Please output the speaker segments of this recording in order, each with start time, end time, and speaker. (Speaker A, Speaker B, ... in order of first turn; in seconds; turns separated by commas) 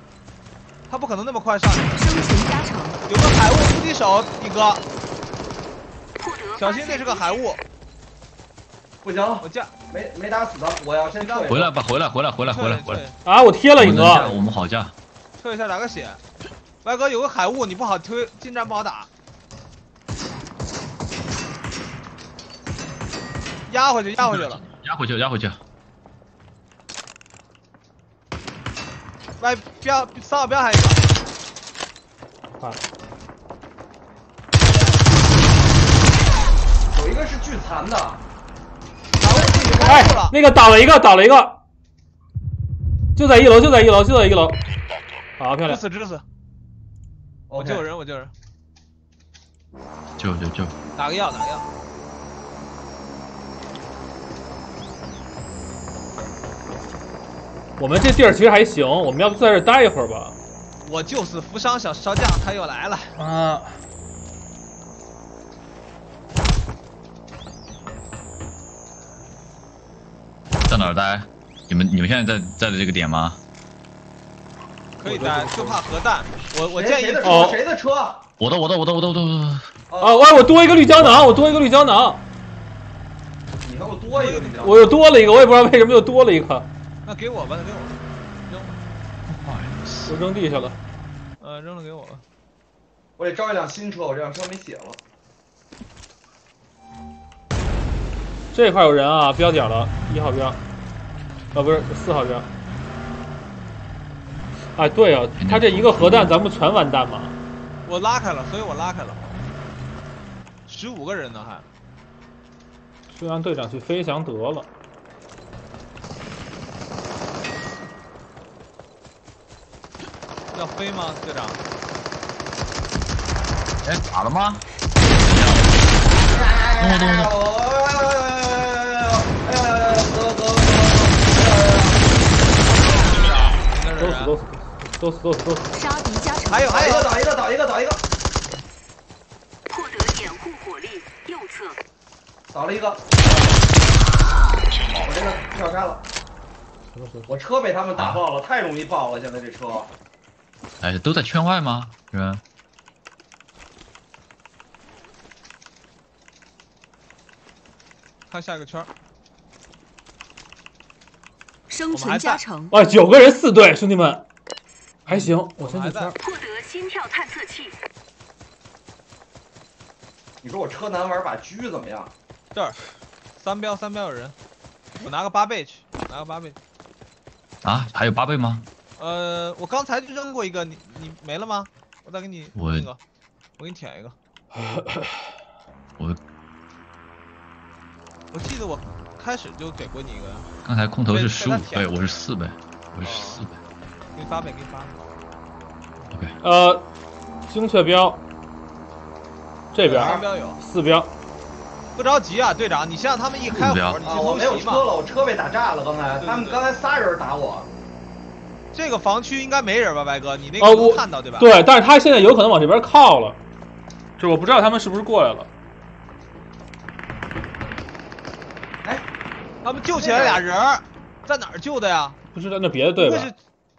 Speaker A: 0.9-2.1, Speaker B: 2.0-3.0, Speaker A: 3.1-4.8, Speaker B: 6.2-7.4, Speaker A: 6.6-7.6, Speaker C: 9.0-11.7, Speaker A: 9.4-9.7, Speaker A: 11.2-11.7, Speaker D: 11.5-13.1, Speaker A: 12.4-13.2, Speaker E: 13.2-14.3, Speaker D: 13.8-14.9, Speaker C: 14.1-14.4, Speaker A: 15.4-16.2, Speaker A: 16.8-19.1, Speaker A: 23.7-24.6, Speaker D: 24.2-25.6, Speaker A: 29.4-31.0, Speaker E: 32.6-32.8, Speaker C: 36.9-38.2, Speaker A: 39.2-40.4, Speaker C: 39.3-40.2, Speaker E: 39.8-41.6, Speaker E: 43.2-44.6, Speaker E: 45.4-45.8, Speaker A: 45.7-46.2, Speaker C: 47.5-47.8, Speaker A: 47.6-48.3, Speaker D: 50.2-50.8, Speaker A: 51.0-51.7, Speaker E: 57.8-60.4, Speaker A: 60.8-63.2, Speaker E: 63.2-63.8, Speaker D: 70.7-73.4, Speaker A: 75.0-77.5, Speaker E: 75.0-75.8, Speaker C: 76.7-78.3, Speaker E: 77.2-77.6, Speaker D: 78.4-79.7, Speaker C: 79.9-80.3, Speaker E: 80.0-82.2, Speaker C: 83.6-85.0, Speaker A: 84.1-84.6, Speaker E: 84.6-86.7, Speaker A: 87.1-88.8, Speaker D: 89.3-90.2, Speaker E: 90.1-90.8, Speaker A: 91.4-92.2, Speaker C: 93.2-95.0, Speaker E: 98.5-100.6, Speaker E: 101.5-102.5, Speaker E: 104.8-107.4, Speaker D: 105.4-106.4, Speaker A: 107.8-109.3, Speaker A: 110.7-111.7, Speaker E: 113.1-114.7, Speaker A: 120.5-121.6, Speaker D: 123.8-126.0, Speaker C: 126.2-132.2, Speaker D: 126.8-127.3, Speaker A: 132.6-134.3, Speaker E: 134.0-135.7, Speaker B: 135.7-136.9, Speaker A: 136.5-137.1, Speaker C: 136.7-138.1, Speaker B: 139.7-141.8, Speaker C: 142.5-143.4, Speaker C: 144.9-146.1, Speaker E: 146.9-147.3, Speaker C: 147.3-149.9, Speaker D: 148.0-148.2, Speaker D: 150.8-152.4, Speaker A: 158.3-158.9, Speaker B: 161.7-162.8, Speaker A: 161.9-162.4, Speaker E: 162.7-164.2, Speaker A: 165.1-166.1, Speaker E: 165.1-166.2, Speaker B: 166.2-167.8, Speaker C: 170.4-172.1, Speaker A: 172.5-172.8, Speaker A: 173.4-174.3, Speaker A: 175.0-176.6, Speaker D: 177.6-178.7, Speaker A: 179.0-183.0, Speaker D: 182.6-182.9, Speaker A: 183.6-184.2, Speaker E: 184.5-185.4, Speaker A: 188.3-190.5, Speaker D: 190.6-193.6, Speaker A: 191.1-192.2, Speaker A: 193.0-193.4, Speaker A: 194.2-195.0, Speaker D: 196.1-196.4, Speaker E: 196.4-196.9, Speaker E: 197.5-198.2, Speaker E: 199.7-201.1, Speaker A: 199.8-200.6, Speaker C: 199.9-200.3, Speaker A: 202.0-204.9, Speaker D: 203.5-204.0, Speaker C: 204.0-207.7, Speaker A: 206.2-206.6, Speaker A: 208.7-211.5, Speaker E: 210.6-213.4, Speaker E: 214.2-215.5, Speaker A: 219.6-222.2, Speaker C: 219.9-220.5, Speaker E: 222.3-223.3, Speaker A: 223.0-223.4